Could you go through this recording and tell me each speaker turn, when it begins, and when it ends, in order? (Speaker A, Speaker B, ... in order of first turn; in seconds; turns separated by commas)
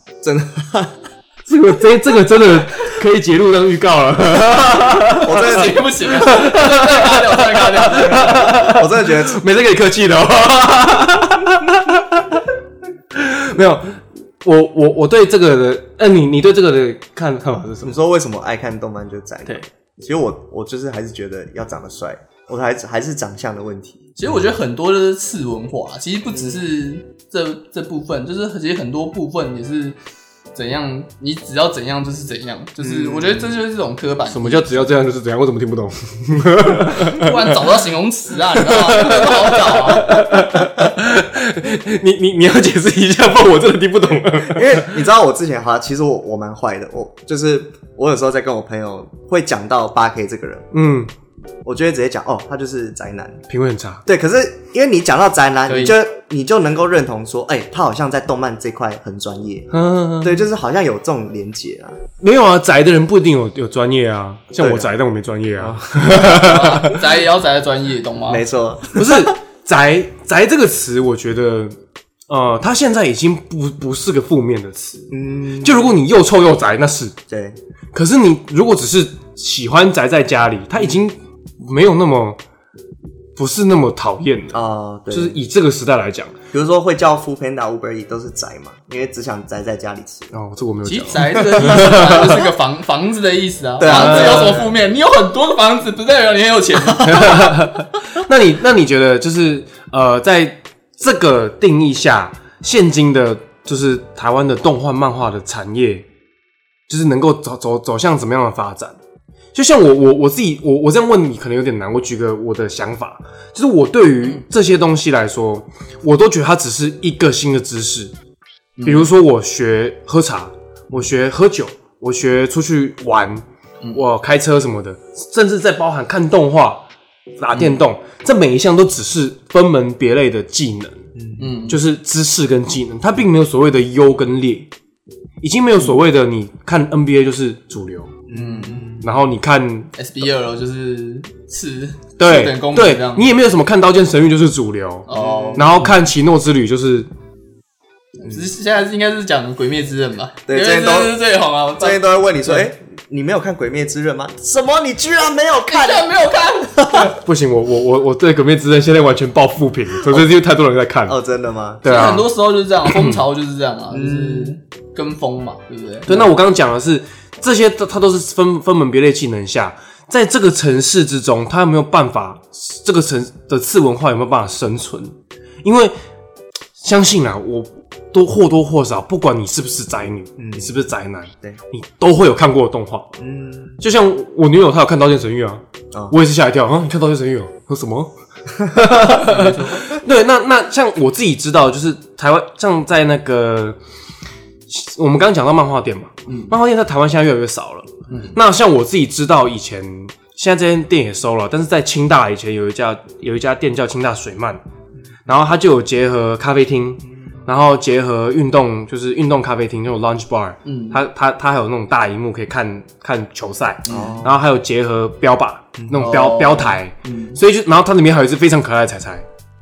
Speaker A: 0.2-0.9, Speaker B: 1.5-12.4, Speaker A: 5.2-5.9, Speaker C: 5.2-8.5, Speaker A: 8.1-9.4, Speaker B: 13.1-17.9, Speaker A: 17.8-24.1, Speaker C: 24.2-30.0, Speaker A: 26.3-26.6, Speaker C: 30.5-34.9, Speaker A: 32.8-33.6, Speaker B: 34.3-37.6, Speaker C: 37.0-40.2, Speaker B: 38.5-44.9, Speaker A: 44.2-50.7, Speaker B: 50.7-51.1, Speaker A: 51.6-53.4, Speaker B: 53.5-54.0, Speaker A: 54.0-62.0, Speaker C: 55.7-56.0, Speaker B: 59.7-60.4, Speaker B: 62.2-67.0, Speaker A: 64.5-64.9, Speaker A: 65.6-66.2, Speaker C: 66.1-68.4, Speaker A: 68.3-69.3, Speaker B: 68.9-71.7, Speaker B: 72.3-77.2, Speaker A: 75.1-75.9, Speaker A: 77.3-77.6, Speaker B: 77.9-82.4, Speaker B: 83.3-84.6, Speaker A: 84.5-85.4, Speaker B: 85.1-86.3, Speaker A: 86.5-90.3, Speaker B: 90.3-92.4, Speaker C: 90.8-97.5, Speaker A: 91.4-92.5, Speaker A: 93.8-94.7, Speaker B: 93.8-94.6, Speaker B: 97.0-106.0, Speaker B: 106.9-109.0, Speaker B: 109.5-118.1, Speaker C: 118.8-119.1, Speaker B: 118.8-126.8, Speaker B: 127.4-131.0, Speaker A: 131.2-131.5, Speaker C: 131.4-131.8, Speaker B: 131.7-134.7, Speaker B: 135.4-138.1, Speaker A: 138.3-139.1, Speaker C: 138.3-138.9, Speaker B: 139.0-139.9, Speaker C: 139.9-143.3, Speaker B: 142.2-147.1, Speaker C: 145.1-145.9, Speaker A: 145.1-145.9, Speaker C: 148.2-152.7, Speaker A: 150.5-151.2, Speaker A: 151.8-156.1, Speaker C: 155.7-157.0, Speaker A: 156.6-157.1, Speaker B: 157.0-161.2, Speaker A: 160.0-160.3, Speaker A: 161.1-161.8, Speaker B: 161.8-162.3, Speaker C: 161.8-166.1, Speaker B: 162.8-163.2, Speaker A: 163.9-164.6, Speaker B: 166.1-175.1, Speaker B: 175.6-175.9, Speaker B: 176.8-183.1, Speaker A: 180.4-180.7, Speaker A: 183.2-183.8, Speaker B: 183.8-193.8, Speaker C: 189.1-189.9, Speaker B: 194.7-204.6, Speaker C: 196.3-196.5, Speaker C: 198.1-198.3, Speaker B: 205.2-219.2, Speaker C: 210.6-211.0, Speaker C: 213.8-214.2, Speaker A: 213.8-214.4, Speaker A: 215.8-216.0, Speaker C: 216.0-217.4